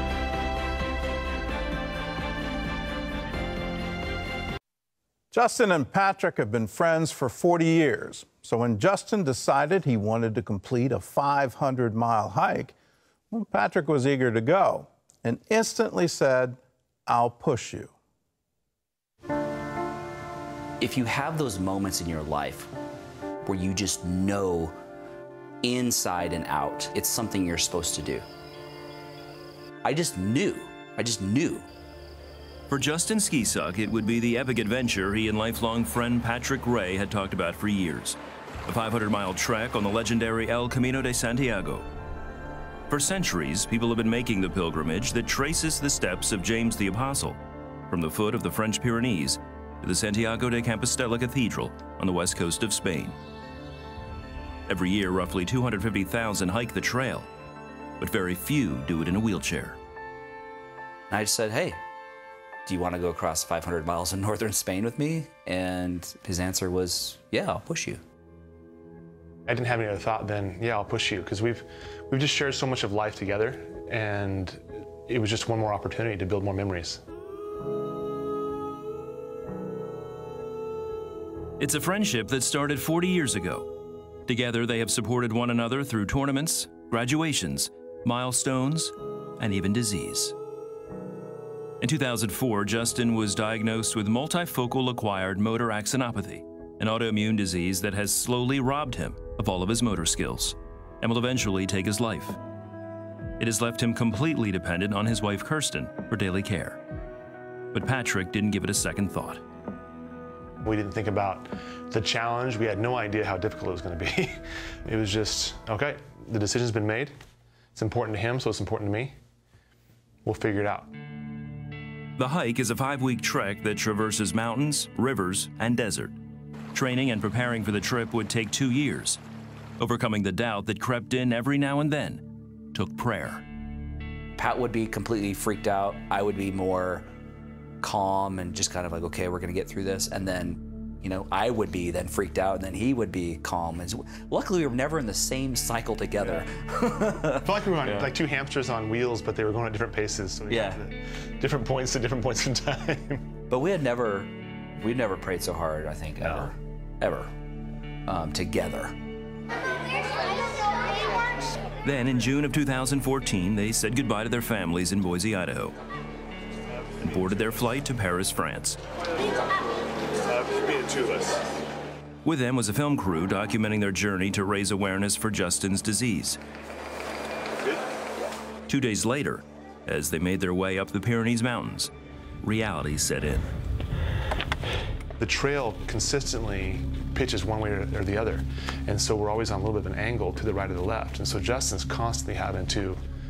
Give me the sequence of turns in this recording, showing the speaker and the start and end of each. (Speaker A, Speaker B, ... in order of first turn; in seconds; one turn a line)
Speaker A: 5.3-12.8
Speaker A: 13.3-17.9
Speaker B: 20.8-22.7
Speaker B: 23.4-24.8
Speaker B: 25.6-28.2
Speaker B: 29.8-31.7
Speaker C: 32.7-41.9
Speaker C: 42.9-47.4
Speaker C: 47.9-53.2
Speaker C: 54.7-57.3
Speaker C: 58.0-59.8
Speaker B: 61.1-61.8
Speaker B: 62.6-68.0
Speaker D: 69.5-77.0
Speaker C: 81.6-83.7
Speaker C: 84.3-90.3
Speaker C: 91.8-102.4
Speaker C: 103.4-106.8
Speaker C: 107.7-109.4
Speaker D: 110.6-117.1
Speaker D: 117.8-119.1
Speaker D: 120.2-120.9
Speaker C: 122.2-126.2
Speaker C: 126.7-129.2
Speaker C: 129.8-133.4
Speaker B: 134.4-137.1
Speaker B: 137.8-148.1
Speaker D: 147.4-153.2
Speaker B: 150.5-150.8
Speaker B: 153.5-157.3
Speaker D: 156.2-156.5
Speaker B: 158.1-158.9
Speaker C: 161.8-165.8
Speaker C: 167.0-168.8
Speaker D: 171.0-171.2
Speaker C: 172.2-176.4
Speaker C: 178.7-181.9
Speaker C: 182.4-183.5
Speaker D: 185.2-193.0